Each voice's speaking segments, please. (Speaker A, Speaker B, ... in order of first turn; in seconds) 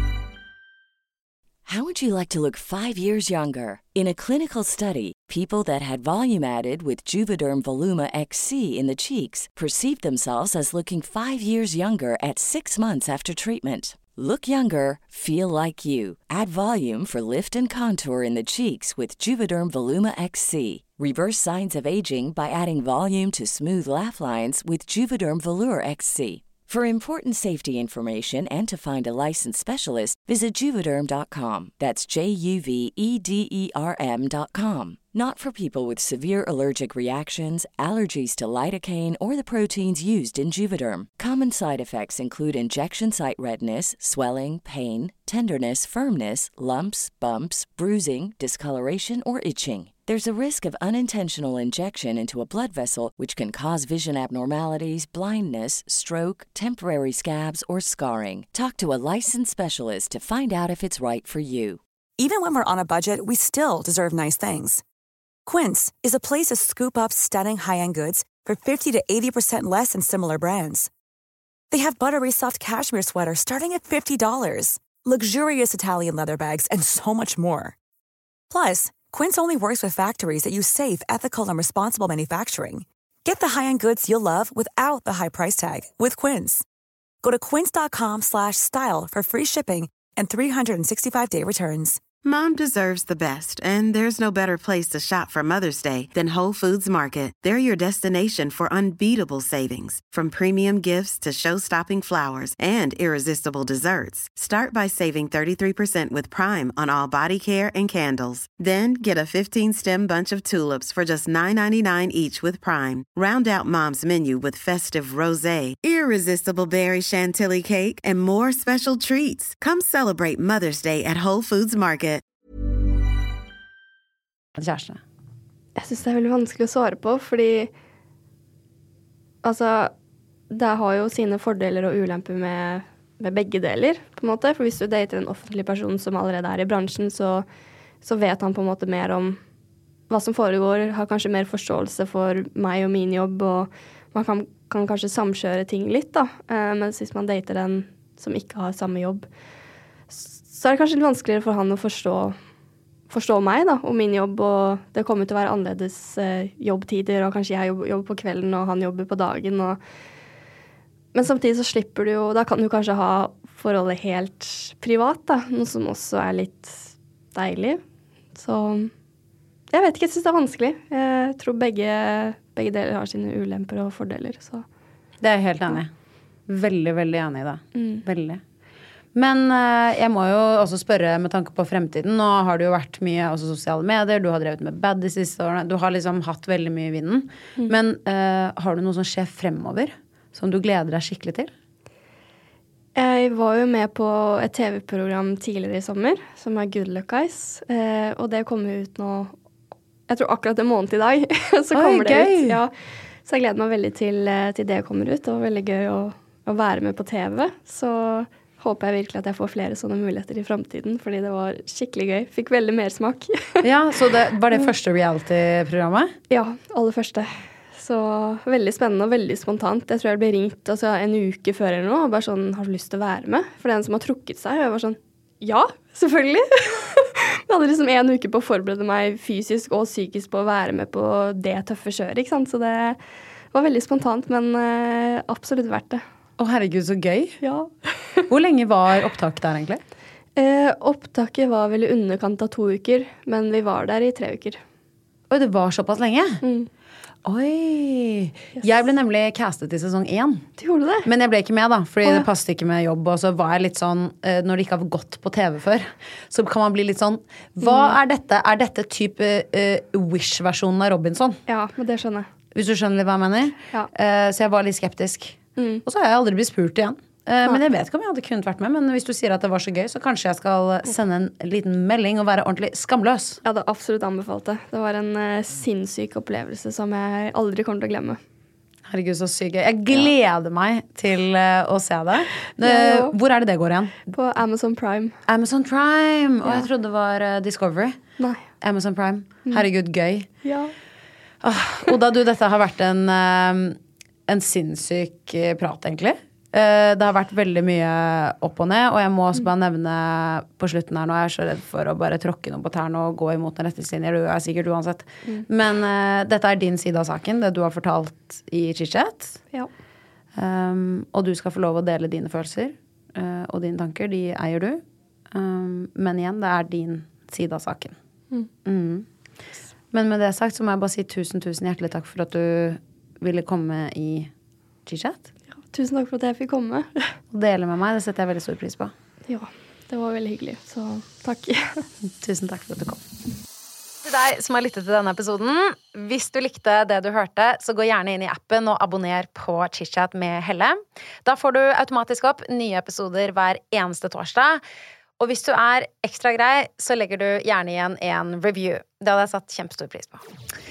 Speaker A: 1.6-61.8
Speaker B: 62.2-64.8, 65.5-70.9, 71.7-77.8, 78.5-86.7, 87.2-92.0
Speaker C: 92.2-122.2
Speaker D: 124.5-125.0, 175.2-175.9, 176.5-178.4, 179.1-191.5, 201.7-202.6, 213.6-216.1, 236.4-237.4, 238.3-239.8, 245.3-246.4, 247.2-250.5, 251.0-261.4, 262.5-273.4, 278.9-284.0, 285.3-288.0, 288.6-290.3, 291.4-309.4, 310.3-318.0, 318.6-319.1, 319.9-324.3, 324.9-325.3, 327.3-328.9, 332.0-333.0, 334.0-344.6, 345.2-350.2
Speaker E: 125.8-127.7, 129.4-129.9, 130.5-137.4, 138.0-139.4, 140.1-149.3, 150.1-152.4, 153.1-159.8, 161.1-167.8, 168.3-168.9, 169.7-174.7, 177.7-178.0, 192.9-199.3, 200.1-202.7, 203.2-213.7, 216.3-233.0, 233.5-236.0, 237.4-238.2, 240.3-244.6, 246.4-246.7, 250.6-251.1, 257.6-257.9, 261.5-262.3, 265.6-265.8, 273.4-278.2, 282.6-283.1, 284.1-285.2, 288.2-288.4, 290.4-290.7, 325.7-327.2, 329.3-331.9